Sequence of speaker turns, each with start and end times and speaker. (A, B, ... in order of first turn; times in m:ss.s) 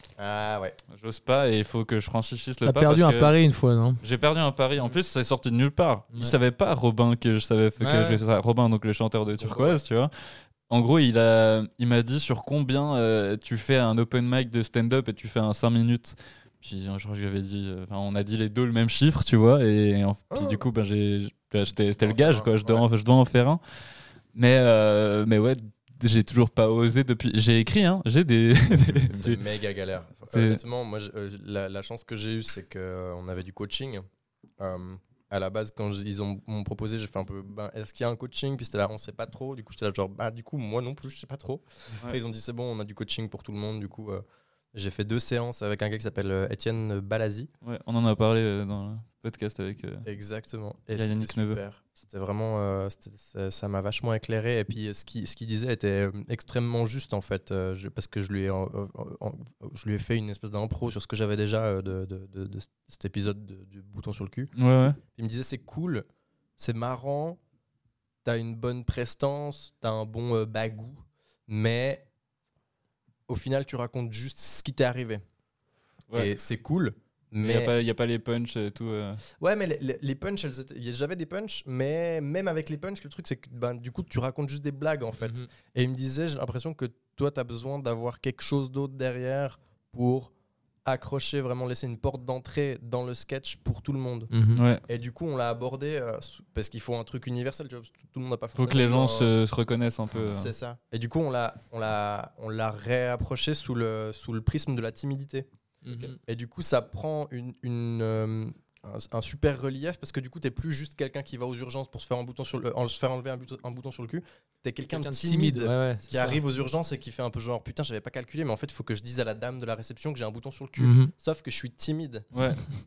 0:00.2-0:00.8 A
0:00.9-0:03.4 B
0:02.6-0:04.0 C
0:04.0-0:10.1 B
0:07.8-0:08.2 C
0:09.4-0:09.8 A
0:10.7-0:23.6 B
0:20.3-0:20.6 A
0:22.0-0:22.8 A
0:24.3-0:29.4 B
0:29.1-0:34.0 A
0:30.3-0:30.6 B
0:34.6-0:47.5 A
0:47.6-0:50.0 B
0:50.0-1:04.5 A
0:50.9-0:51.6 B
1:04.6-1:05.0 B
1:05.1-1:06.0 A
1:06.6-1:07.4 A
1:08.2-1:12.0 A
1:13.3-1:15.2 A
1:16.1-1:17.7 A
1:17.4-1:19.2 B
1:19.4-1:30.3 A
1:30.8-1:34.3 A
1:34.3-1:34.6 C
1:34.5-1:34.8 B
1:34.9-1:39.3 A
1:38.6-1:40.5 B
1:40.1-1:45.5 A
1:45.8-1:46.2 C
1:46.0-2:02.3 A
1:54.9-1:56.4 C
2:00.8-2:01.1 C
2:02.3-2:02.6 B